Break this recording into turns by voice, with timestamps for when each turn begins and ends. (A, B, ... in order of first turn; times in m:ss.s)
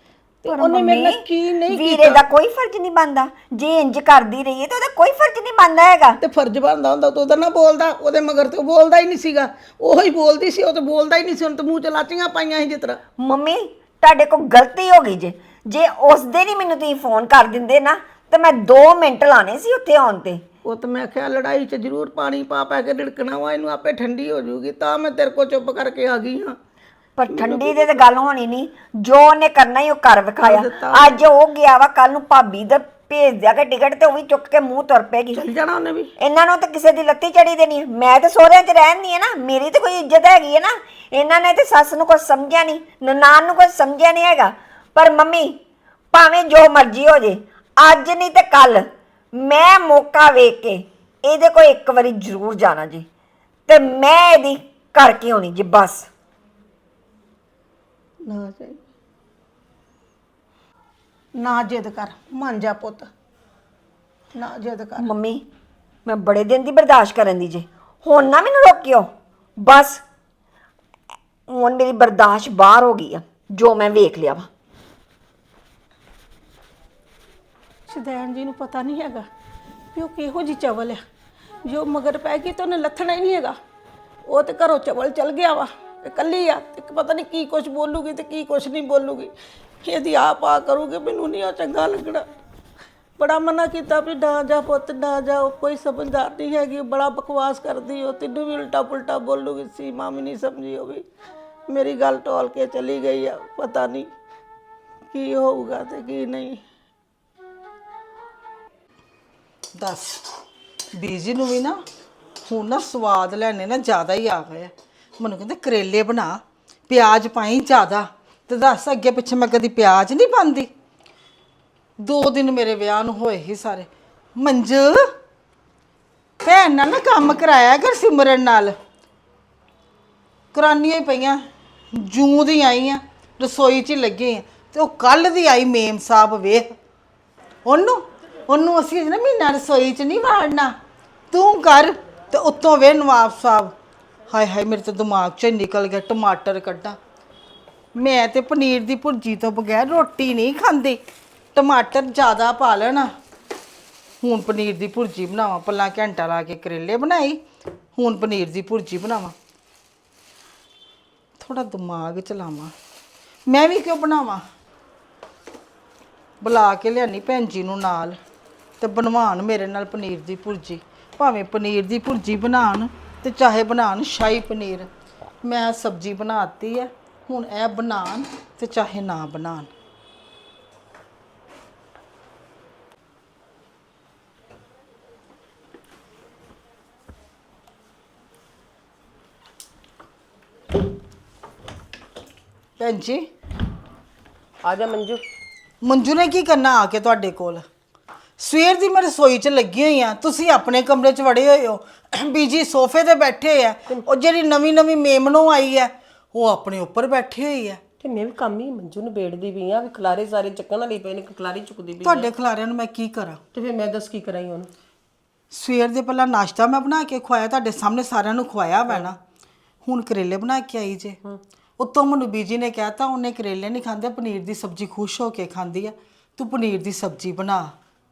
0:00.4-0:02.2 A
0:00.5-0:06.2 B
0:06.2-0:13.0 A
0:13.2-0:20.4 B
0:20.6-0:26.6 A
0:27.2-0:35.4 B
0:30.4-0:31.2 A
0:35.3-0:36.1 A
0:36.2-0:45.6 B
0:46.1-0:48.8 B
0:49.4-0:53.0 B
0:53.7-0:56.1 B
0:58.2-0:58.8 A
1:01.3-1:03.1 A
1:04.3-1:05.1 A
1:05.0-1:05.4 B
1:06.0-1:09.1 B
1:09.6-1:10.0 B
1:11.5-1:14.5 B
1:17.9-1:19.3 A
1:19.9-1:21.0 A
1:21.6-1:23.6 A
1:24.2-1:32.2 A
1:33.2-1:41.0 A
1:41.7-1:44.1 A
1:45.1-1:46.6 A
1:49.8-1:50.1 C
1:50.9-1:51.8 C
1:52.5-2:00.7 C
2:02.0-2:05.0 C
2:06.4-2:08.7 C
2:10.5-2:11.4 C
2:11.9-2:16.7 C
2:17.6-2:20.7 C
2:21.3-2:23.7 C
2:24.3-2:27.0 C
2:27.9-2:31.0 C
2:31.5-2:33.1 C
2:34.2-2:37.4 C
2:38.0-2:39.3 C
2:41.4-2:42.7 C
2:43.5-2:44.4 C
2:46.4-2:48.2 C
2:48.8-2:54.9 C
2:55.4-2:59.7 C
3:12.8-3:13.2 C
3:14.6-3:15.2 D
3:15.8-3:17.6 C
3:18.4-3:27.8 C
3:28.0-3:32.3 D
3:32.0-3:33.4 C
3:33.5-3:34.7 D
3:35.5-3:39.2 C
3:39.8-3:41.2 C
3:41.8-3:47.7 C